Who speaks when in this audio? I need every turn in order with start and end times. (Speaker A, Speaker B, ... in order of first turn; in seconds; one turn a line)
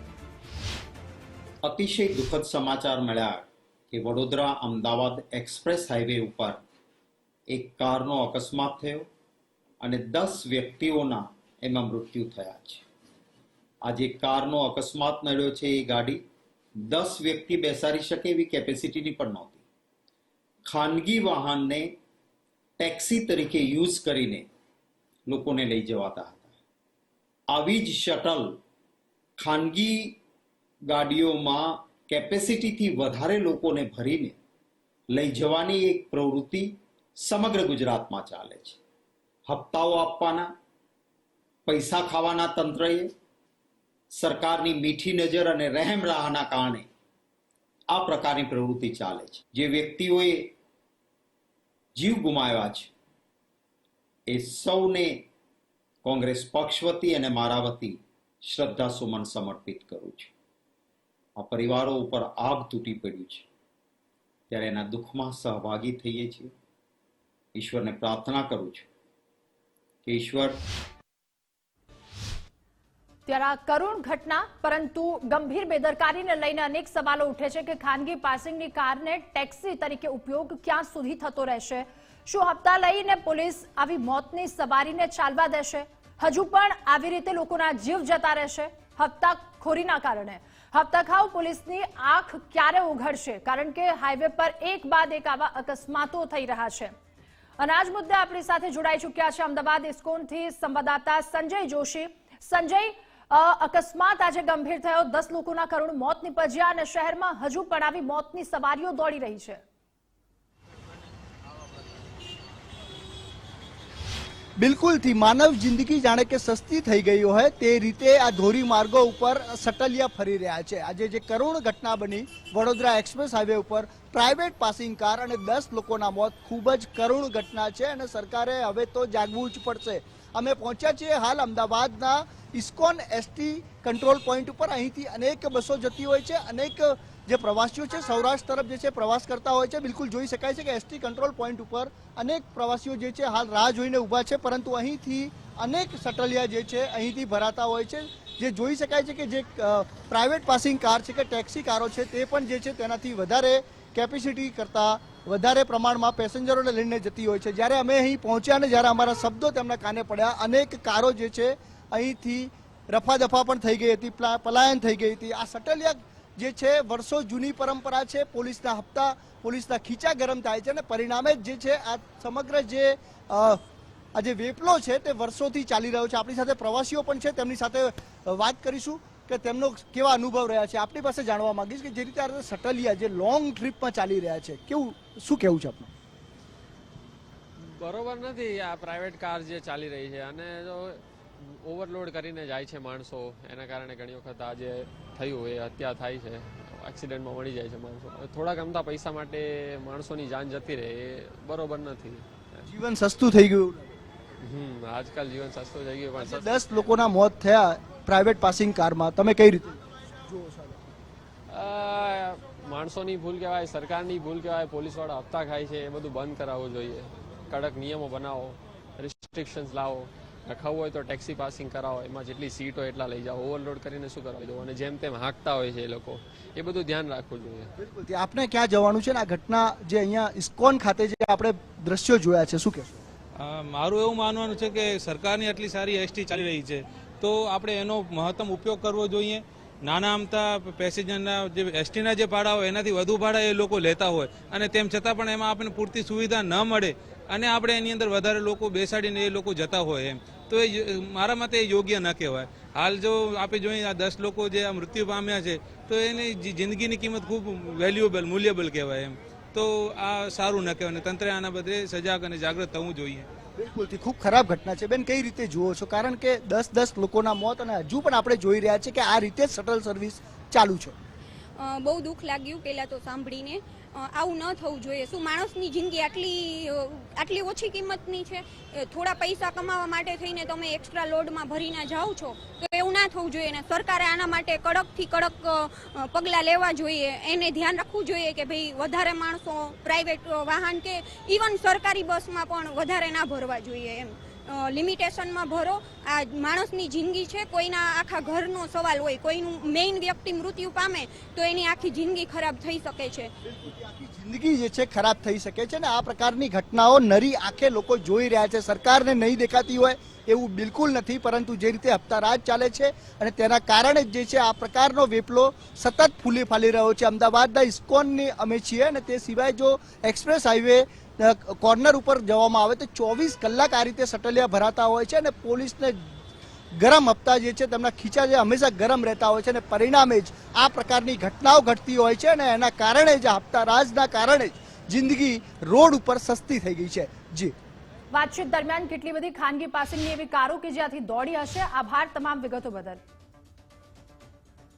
Speaker A: 1.6-6.6
Speaker A: 7.5-9.1
Speaker A: 9.8-12.8
Speaker A: 13.8-16.2
Speaker A: 16.9-19.6
Speaker A: 20.6-21.9
Speaker A: 22.8-24.4
Speaker A: 25.3-26.4
Speaker A: 27.5-28.6
Speaker A: 29.4-30.2
Speaker A: 30.9-34.3
Speaker A: 35.1-38.8
Speaker A: 39.5-40.5
Speaker A: 41.6-43.1
Speaker A: 44.1-46.9
Speaker A: 47.9-50.5
Speaker A: 52.0-52.9
Speaker A: 54.3-55.2
Speaker A: 56.0-60.3
Speaker A: 61.4-63.4
Speaker A: 64.5-66.5
Speaker A: 67.5-68.8
Speaker A: 70.0-70.6
Speaker B: 73.2-96.9
Speaker B: 97.6-109.6
Speaker C: 114.6-173.6
Speaker C: 174.1-185.9
Speaker D: 187.8-202.2
Speaker C: 202.6-203.9
Speaker D: 204.5-206.6
Speaker C: 206.2-210.8
Speaker D: 211.5-227.7
Speaker C: 227.8-233.0
Speaker E: 233.4-263.3
Speaker C: 263.6-270.9
Speaker F: 271.6-303.3
Speaker C: 303.4-326.1
Speaker C: 326.8-337.5
Speaker B: 338.1-343.0